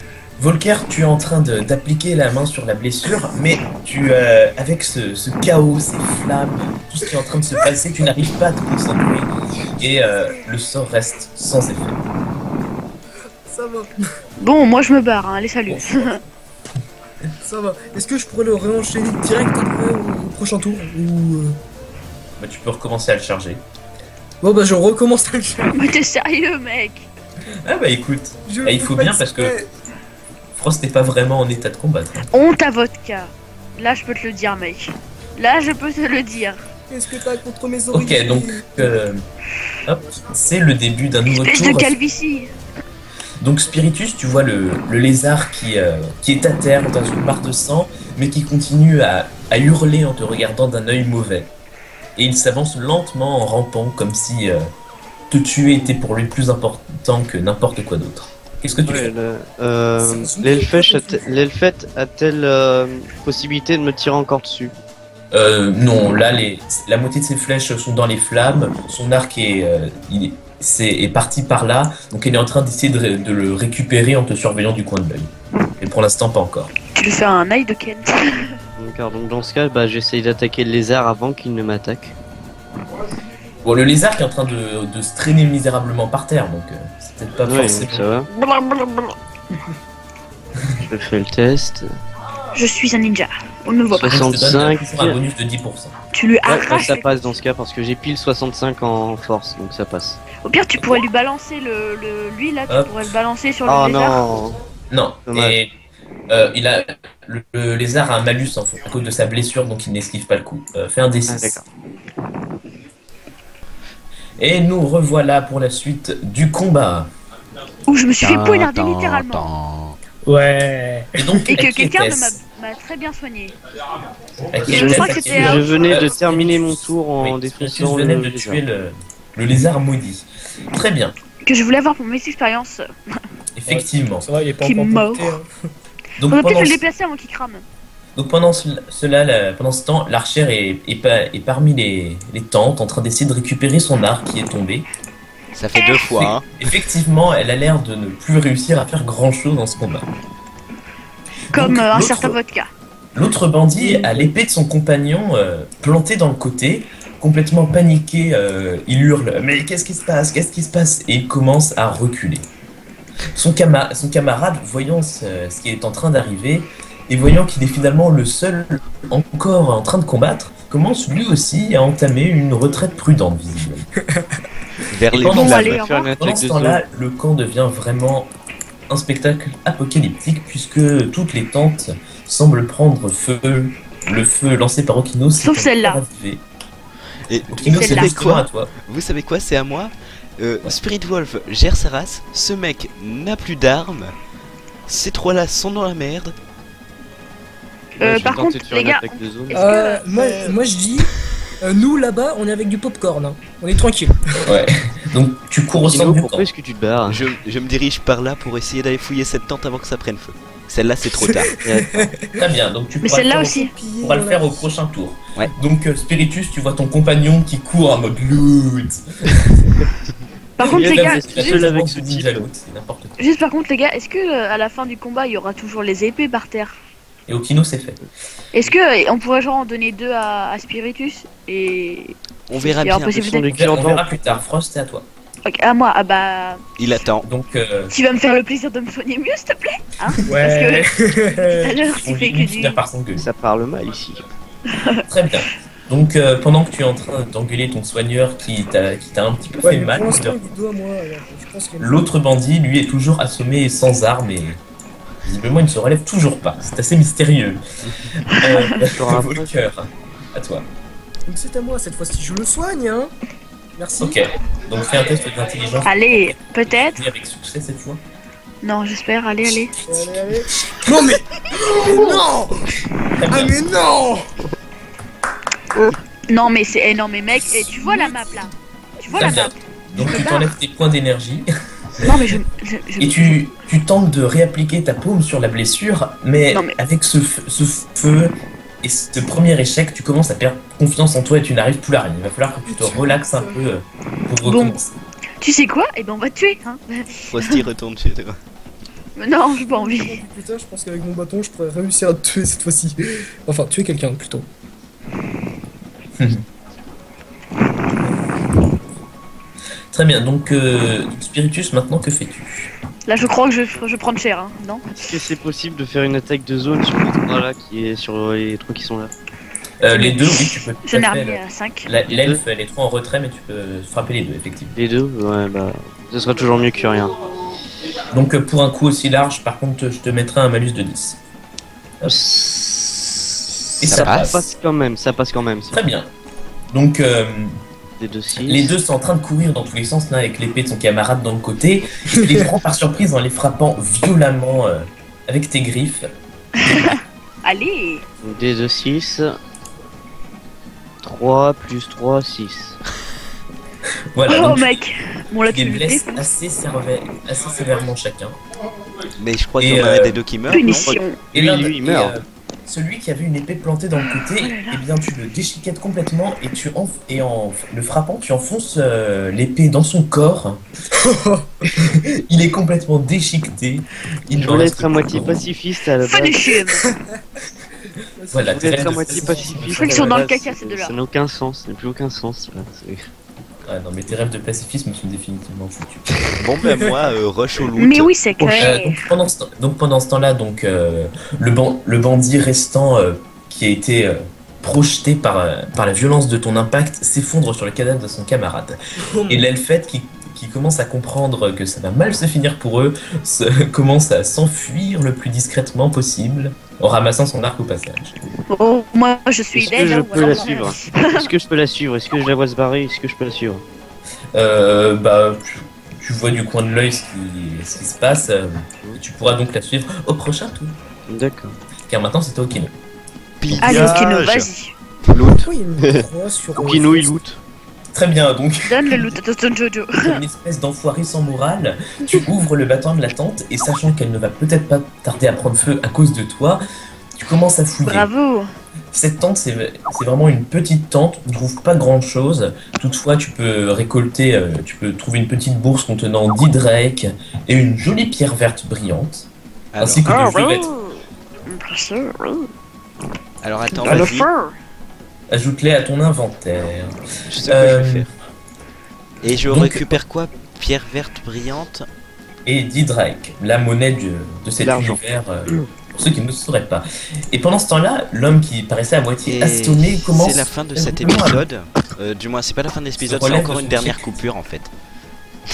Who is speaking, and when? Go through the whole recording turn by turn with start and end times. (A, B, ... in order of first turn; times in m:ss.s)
0:00.4-0:12.0 A
0:13.5-0:13.9 B
0:14.4-0:16.2 C
0:15.7-0:16.2 A
0:17.4-0:21.6 B
0:22.4-0:23.6 A
0:24.4-0:25.7 B
0:25.7-0:27.1 C
0:27.6-0:29.5 A
0:28.4-0:29.7 B
0:30.5-0:32.2 A
0:32.3-0:36.6 C
0:36.9-0:38.9 B
0:37.9-0:39.2 A
0:39.8-0:42.0 A
0:41.3-0:42.5 C
0:43.4-0:51.5 A
0:52.2-0:54.7 A
0:55.3-0:59.1 A
0:58.8-1:04.7 D
1:00.0-1:01.4 B
1:05.3-1:16.7 A
1:16.9-1:18.5 C
1:18.8-1:22.1 D
1:23.6-1:28.1 A
1:27.4-1:28.3 D
1:28.4-1:29.1 C
1:30.8-1:31.9 D
1:32.5-1:34.1 C
1:33.9-1:35.9 A
1:34.0-1:35.2 D
1:36.1-1:37.3 C
1:36.4-1:40.2 D
1:40.4-1:44.2 C
1:42.7-1:43.0 A
1:43.6-1:44.6 D
1:44.9-1:45.7 A
1:45.3-1:45.6 D
1:46.3-1:51.6 A
1:51.3-1:51.6 D
1:54.4-1:57.1 A
1:57.9-1:59.4 C
1:58.2-2:00.0 E
2:00.2-2:01.2 B
2:01.2-2:02.4 A
2:01.5-2:03.5 C
2:04.5-2:11.1 A
2:04.7-2:06.1 C
2:04.7-2:08.6 D
2:11.4-2:12.8 C
2:13.6-2:14.3 A
2:13.7-2:15.5 B
2:14.6-2:15.4 C
2:16.2-2:16.8 A
2:16.2-2:17.6 C
2:18.2-2:24.8 A
2:25.5-2:26.6 E
2:25.7-2:26.0 C
2:26.2-2:30.0 A
2:31.5-2:32.4 A
2:31.5-2:32.7 C
2:33.1-2:42.4 A
2:33.7-2:34.3 B
2:43.4-2:53.9 A
2:54.1-2:54.4 B
2:54.9-2:55.8 E
2:55.1-2:58.3 A
2:55.3-2:56.3 C
2:55.4-2:56.8 D
2:58.9-3:06.4 A
3:05.4-3:06.0 C
3:07.3-3:14.1 E
3:07.6-3:08.7 A
3:07.6-3:08.1 C
3:14.9-3:16.3 E
3:18.0-3:19.8 D
3:18.0-3:20.1 C
3:19.5-3:21.1 B
3:20.1-3:21.0 E
3:21.6-3:24.2 B
3:24.4-3:26.5 A
3:25.7-3:27.2 D
3:27.1-3:31.5 E
3:31.2-3:31.8 B
3:31.6-3:32.1 D
3:32.4-3:39.6 A
3:33.0-3:33.7 C
3:33.4-3:34.7 B
3:40.6-3:41.6 C
3:40.6-3:43.1 A
3:40.7-3:42.4 D
3:43.2-3:46.8 C
3:47.3-3:48.0 A
3:48.5-3:53.4 C
3:52.5-3:53.4 E
3:53.1-3:54.4 D
3:53.5-3:55.0 A
3:55.4-3:56.6 C
3:56.8-3:57.3 E
3:57.2-3:57.9 A
3:57.9-4:02.8 C
4:00.2-4:01.8 B
4:01.9-4:03.3 A
4:03.2-4:04.2 D
4:04.7-4:05.0 C
4:05.1-4:10.4 A
4:09.6-4:12.1 B
4:11.8-4:14.6 A
4:15.2-4:17.6 A
4:18.2-4:20.7 A
4:18.9-4:19.6 D
4:21.3-4:23.1 B
4:23.8-4:24.2 B
4:24.0-4:28.0 A
4:25.8-4:27.0 C
4:28.6-4:29.7 C
4:29.8-4:32.6 B
4:33.2-4:33.6 A
4:33.3-4:34.5 B
4:36.3-4:40.5 C
4:37.3-4:38.5 B
4:39.1-4:41.5 A
4:39.9-4:40.2 B
4:42.0-4:43.4 C
4:43.0-4:54.9 A
4:52.7-4:53.6 B
4:54.4-4:54.8 C
4:55.4-4:57.6 C
4:57.3-4:58.4 E
4:59.2-5:00.2 C
4:59.5-5:04.5 B
5:06.2-5:06.4 A
5:09.9-5:12.7 A
5:13.1-5:14.8 C
5:15.0-5:19.1 D
5:19.8-5:24.8 A
5:19.9-5:21.9 C
5:22.1-5:22.4 D
5:24.7-5:27.1 D
5:28.1-5:31.2 A
5:32.0-5:33.2 D
5:33.8-5:34.5 A
5:33.8-5:35.8 D
5:33.8-5:34.3 E
5:35.7-5:36.1 A
5:36.7-5:37.6 A
5:38.0-5:38.8 D
5:38.4-5:46.1 A
5:46.6-5:46.9 A
5:46.6-5:48.0 C
5:48.2-5:49.4 D
5:51.0-5:52.8 D
5:54.1-5:54.8 A
5:54.3-5:56.2 C
5:55.5-5:58.4 A
5:59.2-6:00.9 E
5:59.6-6:00.2 A
6:00.5-6:01.2 C
6:00.6-6:02.1 D
6:01.3-6:10.6 A
6:04.3-6:04.8 C
6:11.0-6:11.5 B
6:12.3-6:15.5 A
6:14.3-6:16.3 D
6:16.0-6:16.8 C
6:16.6-6:16.9 B
6:18.2-6:19.8 B
6:18.3-6:20.2 A
6:18.4-6:23.1 D
6:19.7-6:20.9 C
6:23.6-6:26.2 A
6:26.4-6:28.1 E
6:27.8-6:29.0 C
6:28.4-6:28.7 D
6:28.6-6:38.8 A
6:39.1-6:39.4 B
6:39.3-6:48.1 A
6:48.5-6:51.3 C
6:49.5-6:53.6 D
6:50.1-6:50.5 B
6:54.3-7:00.7 A
7:01.1-7:01.6 D
7:01.9-7:02.7 A
7:03.4-7:04.5 E
7:03.6-7:04.7 C
7:03.7-7:04.0 B
7:05.1-7:05.4 E
7:05.4-7:07.1 B
7:06.6-7:07.4 D
7:07.9-7:09.0 A
7:08.6-7:10.0 C
7:10.0-7:16.6 A
7:17.2-7:18.1 A
7:17.8-7:18.4 C
7:18.9-7:29.3 A
7:29.7-7:30.6 E
7:29.8-7:30.5 A
7:30.3-7:32.5 C
7:33.4-7:34.3 E
7:33.8-7:34.5 C
7:35.3-7:38.1 A
7:37.3-7:38.1 E
7:39.2-7:41.8 E
7:39.4-7:40.0 A
7:42.4-7:51.4 A
7:44.6-7:45.7 D
7:49.2-7:54.7 E
7:53.0-7:54.2 A